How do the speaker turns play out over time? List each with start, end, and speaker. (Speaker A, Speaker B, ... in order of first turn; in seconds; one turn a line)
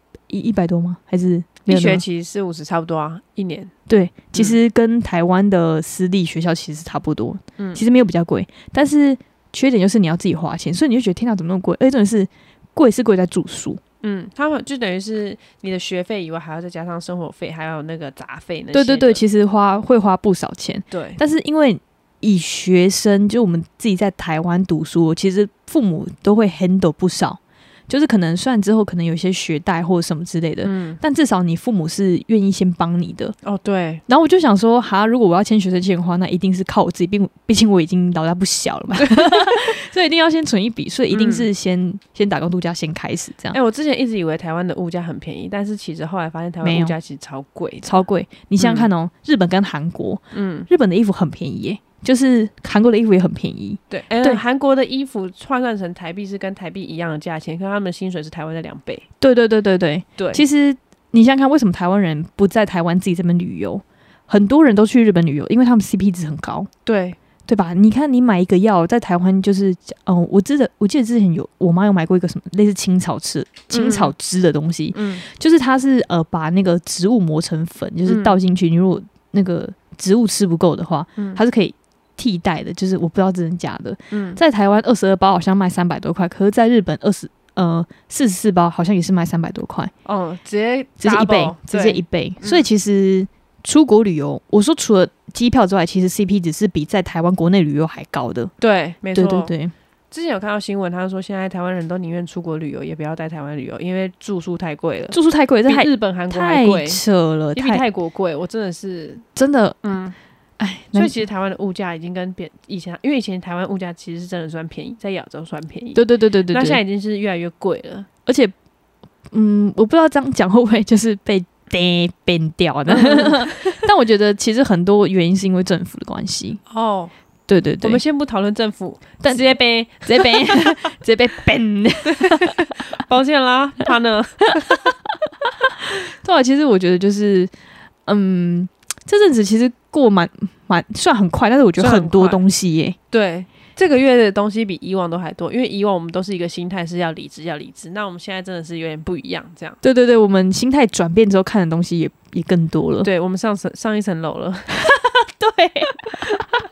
Speaker A: 0.3-2.0
Speaker B: 1.6-3.7
Speaker A: 3.9-13.8
Speaker B: 7.6-7.8
Speaker B: 14.0-19.2
Speaker A: 18.7-33.3
Speaker B: 20.9-21.2
Speaker B: 30.6-31.0
Speaker B: 33.4-34.0
Speaker A: 34.1-43.6
Speaker B: 39.0-39.7
Speaker B: 41.1-41.5
Speaker B: 43.5-47.9
Speaker A: 46.6-46.9
Speaker A: 47.8-54.4
Speaker B: 48.6-48.9
Speaker B: 50.3-50.7
Speaker B: 53.9-59.0
Speaker A: 59.2-66.7
Speaker B: 60.2-60.4
Speaker B: 66.8-67.2
Speaker A: 67.5-89.9
Speaker B: 73.7-74.1
Speaker B: 74.9-75.2
Speaker B: 78.0-78.3
Speaker B: 84.1-84.4
Speaker B: 90.0-92.6
Speaker A: 91.0-98.5
Speaker B: 98.6-99.5
Speaker A: 99.1-99.7
Speaker B: 100.1-107.0
Speaker A: 105.1-107.8
Speaker B: 107.5-109.2
Speaker A: 109.3-109.8
Speaker B: 109.8-110.1
Speaker A: 110.6-111.2
Speaker B: 110.9-118.1
Speaker A: 115.9-116.8
Speaker A: 118.2-118.5
Speaker A: 119.3-126.6
Speaker B: 122.9-123.8
Speaker B: 126.7-127.1
Speaker A: 127.5-128.0
Speaker B: 127.8-130.7
Speaker A: 129.2-129.5
Speaker A: 130.1-132.6
Speaker B: 132.1-134.9
Speaker A: 135.8-137.5
Speaker A: 138.1-143.0
Speaker B: 141.8-142.4
Speaker B: 143.1-149.8
Speaker A: 149.8-153.1
Speaker B: 153.0-154.8
Speaker A: 154.9-156.3